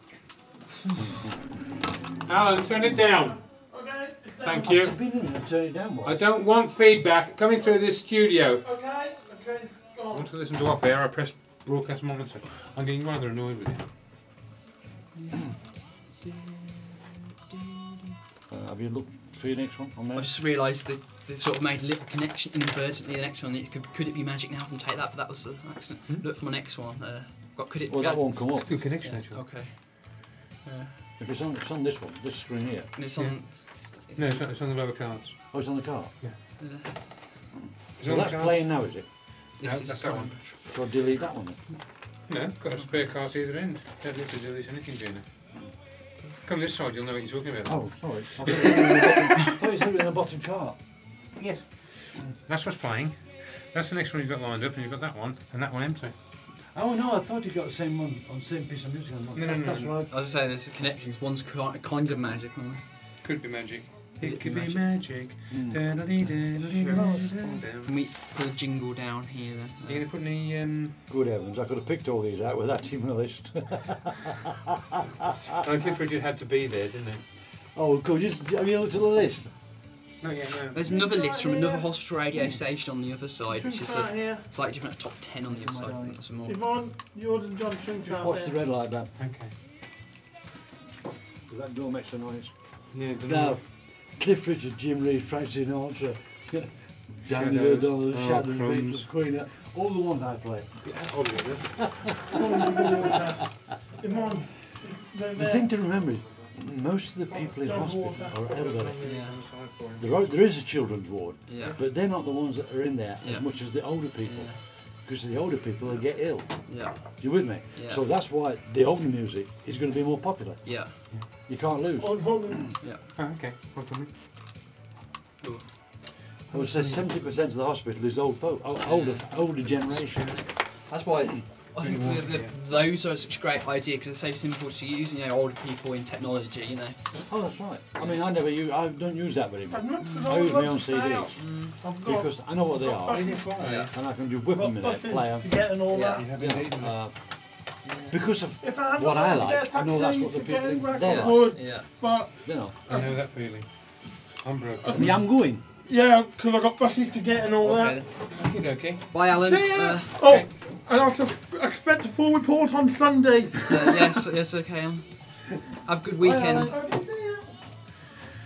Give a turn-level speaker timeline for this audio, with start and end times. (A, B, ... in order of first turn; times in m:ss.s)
0:02.3-0:03.6 A
0:03.6-0:04.7 B
0:04.4-0:05.0 A
0:04.6-0:06.2 C
0:06.0-0:08.7 A
0:08.6-0:10.3 B
0:10.1-0:13.9 A
0:15.2-0:16.9 D
0:18.5-0:20.3 C
0:20.1-0:31.1 D
0:27.9-0:28.8 C
0:28.6-0:29.4 A
0:31.2-0:33.0 C
0:33.0-0:34.5 D
0:33.2-0:36.4 A
0:35.5-0:36.6 C
0:36.6-0:37.3 D
0:37.8-0:39.1 C
0:38.0-0:40.6 A
0:39.6-0:41.1 D
0:40.6-0:41.6 C
0:42.3-0:45.7 A
0:42.7-0:43.0 D
0:46.4-0:49.1 A
0:47.6-0:50.8 C
0:51.4-0:56.2 A
0:56.7-1:00.1 C
0:59.3-1:00.0 A
1:00.1-1:02.9 D
1:03.2-1:07.9 A
1:04.2-1:04.9 D
1:05.5-1:06.3 C
1:06.6-1:10.1 D
1:06.9-1:07.7 C
1:09.8-1:11.0 A
1:11.1-1:14.4 C
1:15.1-1:17.2 A
1:17.6-1:19.5 C
1:20.2-1:20.8 A
1:20.7-1:26.6 D
1:20.8-1:22.0 B
1:23.5-1:24.4 B
1:25.7-1:26.0 C
1:25.8-1:28.6 B
1:28.0-1:29.1 C
1:29.2-1:29.6 A
1:31.5-1:41.0 C
1:32.9-1:33.6 A
1:37.3-1:39.1 A
1:40.8-1:42.2 A
1:42.3-1:45.7 B
1:45.3-1:49.2 C
1:47.6-1:48.5 B
1:47.8-1:50.3 A
1:49.0-1:49.5 D
1:50.0-2:02.6 C
1:51.5-1:51.8 D
1:53.2-1:54.6 D
1:55.8-1:58.0 D
2:00.6-2:01.0 D
2:02.0-2:02.8 B
2:02.8-2:03.1 D
2:03.1-2:04.1 A
2:05.4-2:05.7 D
2:06.4-2:07.3 A
2:06.5-2:10.4 C
2:08.8-2:09.8 D
2:09.5-2:10.6 A
2:10.3-2:18.2 D
2:11.7-2:12.6 A
2:17.3-2:25.7 C
2:19.7-2:23.6 B
2:21.4-2:21.8 D
2:23.1-2:24.1 A
2:23.6-2:23.9 D
2:24.5-2:26.3 B
2:25.9-2:26.3 D
2:26.1-2:27.0 A
2:26.4-2:31.8 C
2:27.8-2:28.2 D
2:28.6-2:33.2 B
2:31.0-2:31.9 D
2:32.4-2:32.8 C
2:32.8-2:35.2 A
2:34.8-2:35.1 B
2:34.9-2:35.6 C
2:35.8-2:38.0 B
2:37.6-2:38.4 D
2:38.1-2:39.3 A
2:39.1-2:40.1 D
2:39.4-2:44.1 B
2:43.7-2:46.8 D
2:46.2-2:47.4 C
2:46.6-2:47.1 B